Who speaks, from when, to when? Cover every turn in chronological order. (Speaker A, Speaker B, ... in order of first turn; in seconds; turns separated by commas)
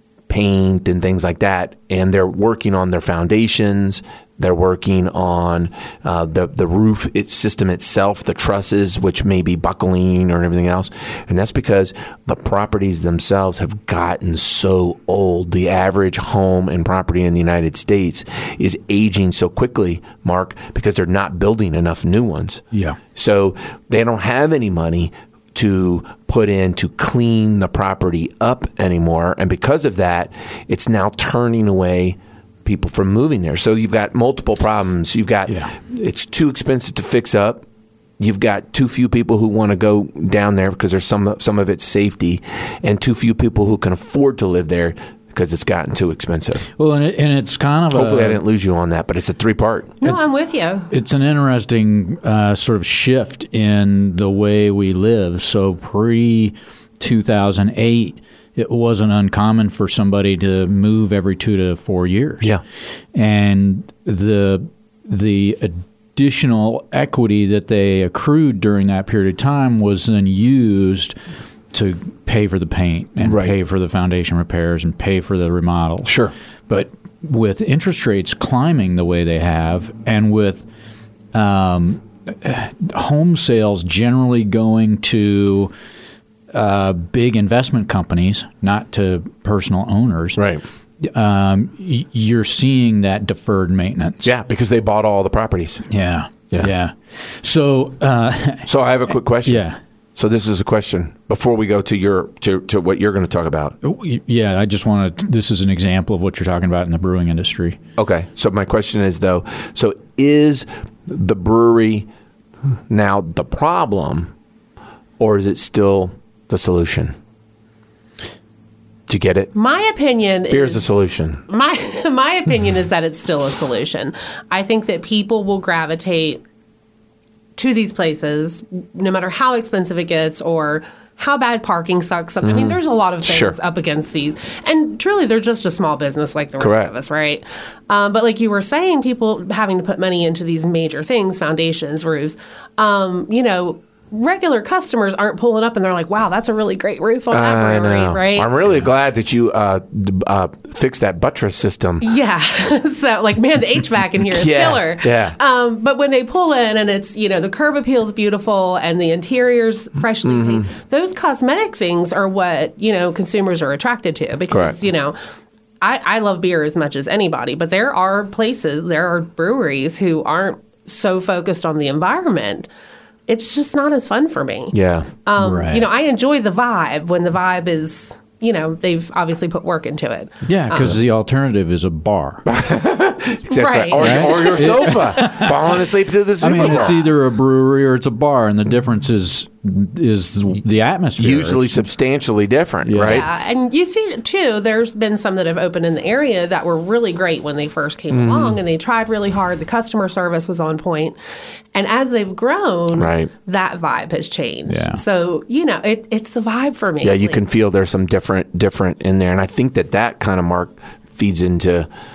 Speaker A: 0.3-22.6, Speaker B: 22.7-23.0, Speaker A: 23.1-37.6, Speaker B: 35.5-35.7, Speaker A: 38.2-46.7, Speaker B: 46.8-48.4, Speaker A: 47.9-50.0, Speaker C: 50.0-50.9, Speaker B: 50.9-62.5, Speaker B: 63.1-71.2, Speaker B: 71.7-76.1, Speaker A: 73.2-73.5, Speaker A: 76.0-76.3, Speaker B: 76.7-80.7, Speaker B: 81.3-85.7, Speaker B: 86.5-90.4, Speaker A: 90.4-90.6, Speaker B: 91.0-94.3, Speaker A: 94.2-95.8, Speaker B: 95.9-98.7, Speaker A: 98.7-99.6, Speaker B: 99.4-99.8, Speaker A: 100.2-103.8, Speaker B: 103.8-107.8, Speaker A: 108.0-112.1, Speaker A: 112.9-114.3, Speaker A: 115.2-117.1, Speaker A: 119.1-119.5, Speaker C: 119.5-120.9, Speaker A: 120.5-121.4, Speaker C: 121.5-126.4, Speaker C: 127.6-148.5, Speaker A: 132.4-133.6, Speaker A: 136.6-136.9, Speaker A: 147.3-152.1, Speaker C: 152.0-165.2, Speaker A: 154.3-155.3, Speaker A: 164.5-164.8, Speaker C: 165.8-172.7, Speaker C: 173.3-181.0, Speaker A: 174.7-175.1, Speaker B: 175.4-175.8, Speaker B: 180.4-182.4, Speaker A: 182.4-187.1, Speaker C: 183.5-184.7, Speaker B: 184.0-185.8, Speaker B: 186.4-191.8, Speaker A: 191.2-193.3, Speaker B: 192.8-193.2, Speaker C: 193.0-201.2, Speaker A: 198.1-198.6, Speaker C: 201.7-207.4, Speaker A: 202.9-203.3, Speaker B: 204.7-205.0, Speaker A: 207.0-211.9